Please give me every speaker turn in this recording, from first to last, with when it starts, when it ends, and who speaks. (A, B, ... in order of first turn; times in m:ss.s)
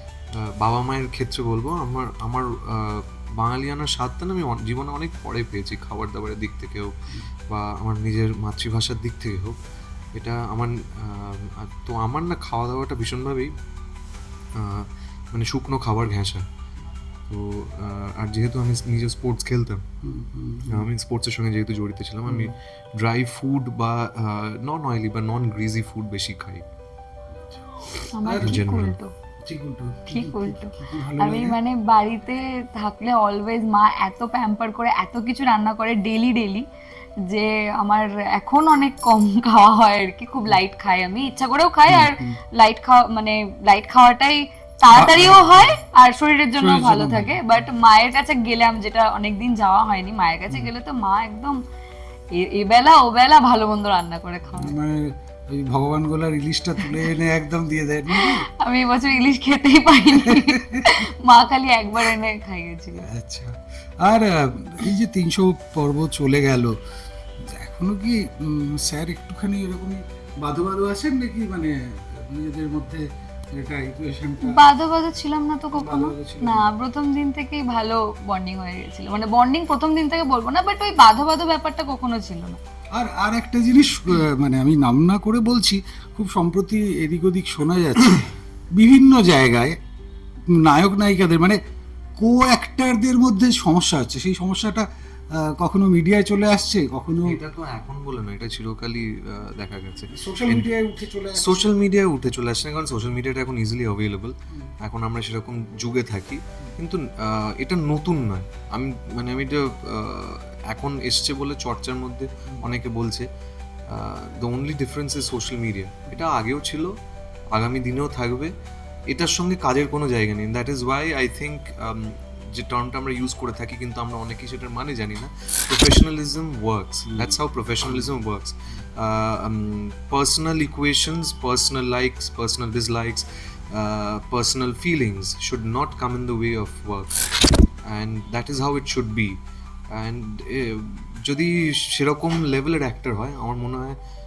0:00.4-0:06.9 A
0:07.5-0:09.6 A
0:10.1-0:13.5 A
0:14.6-0:16.4 A
0:17.3-0:19.8 A
0:20.0-0:20.9 B
0:20.7-0:26.6 A
0:22.2-0:22.5 B
0:27.5-0:28.6 B
0:28.1-0:29.1 C
0:28.4-0:29.0 A
0:29.4-0:31.6 B
0:30.1-0:36.6 C
0:37.3-0:51.6 C
0:41.9-0:42.4 B
0:44.9-0:45.8 B
0:46.6-0:47.4 B
0:52.3-0:54.7 C
0:54.5-0:58.4 B
0:58.1-1:03.1 C
1:00.1-1:01.0 B
1:03.0-1:06.7 B
1:07.4-1:14.6 B
1:14.4-1:22.6 C
1:15.7-1:16.7 B
1:22.9-1:29.8 B
1:30.5-1:31.6 B
1:32.2-1:37.4 B
1:37.2-1:40.7 A
1:40.1-1:41.7 B
1:41.4-1:53.3 A
1:53.9-1:56.9 A
1:57.5-1:58.5 A
1:59.1-2:17.2 A
2:07.1-2:08.1 B
2:17.9-2:19.4 A
2:19.9-2:24.0 A